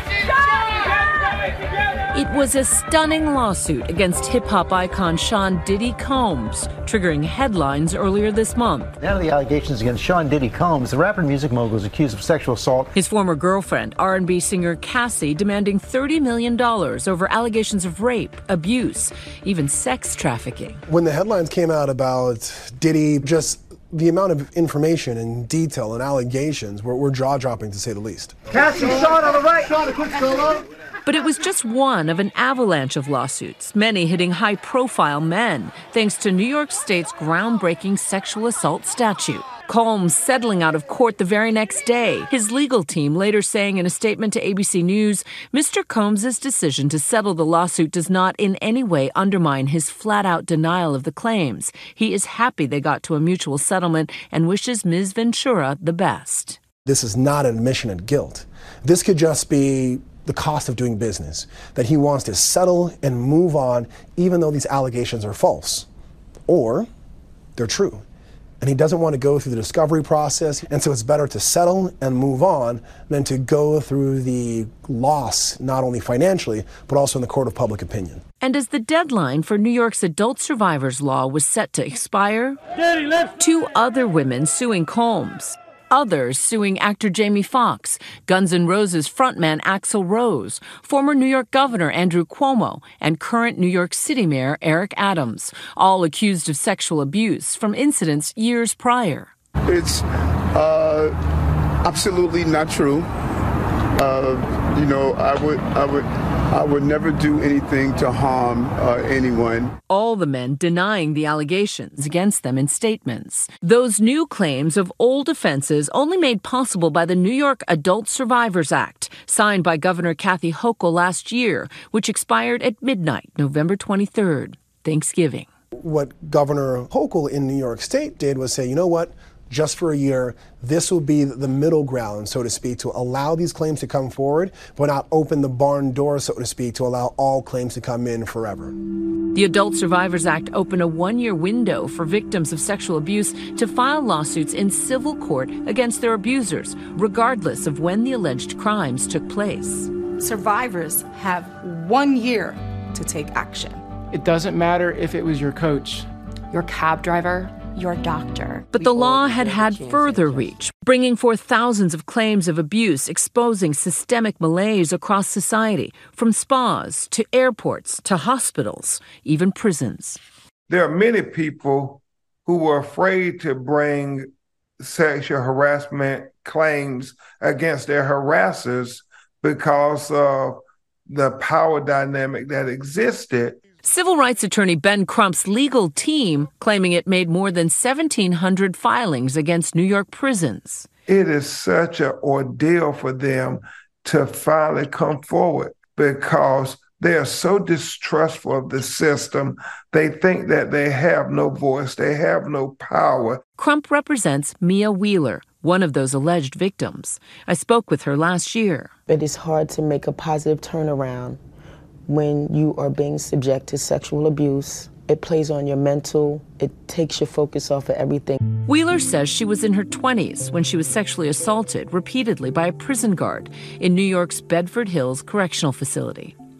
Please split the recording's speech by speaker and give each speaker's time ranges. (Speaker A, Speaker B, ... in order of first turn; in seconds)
Speaker A: 2.1-9.0, 12.9-20.8, 31.1-56.6, 78.4-82.6, 83.4-99.3, 109.9-125.5, 139.3-149.9, 158.7-170.2, 183.8-190.9, 203.6-208.9, 218.7-226.3
Speaker B: 9.0-12.9
Speaker C: 20.9-29.1, 56.9-65.9, 66.5-66.9, 67.6-68.0, 68.6-78.2, 125.8-138.8
Speaker D: 99.7-101.2, 101.8-103.1, 104.0-109.7
Speaker E: 150.2-153.8, 156.5-160.4
Speaker F: 154.1-156.1
Speaker G: 170.7-183.6, 191.1-203.4
Speaker H: 209.1-211.4, 212.1-218.4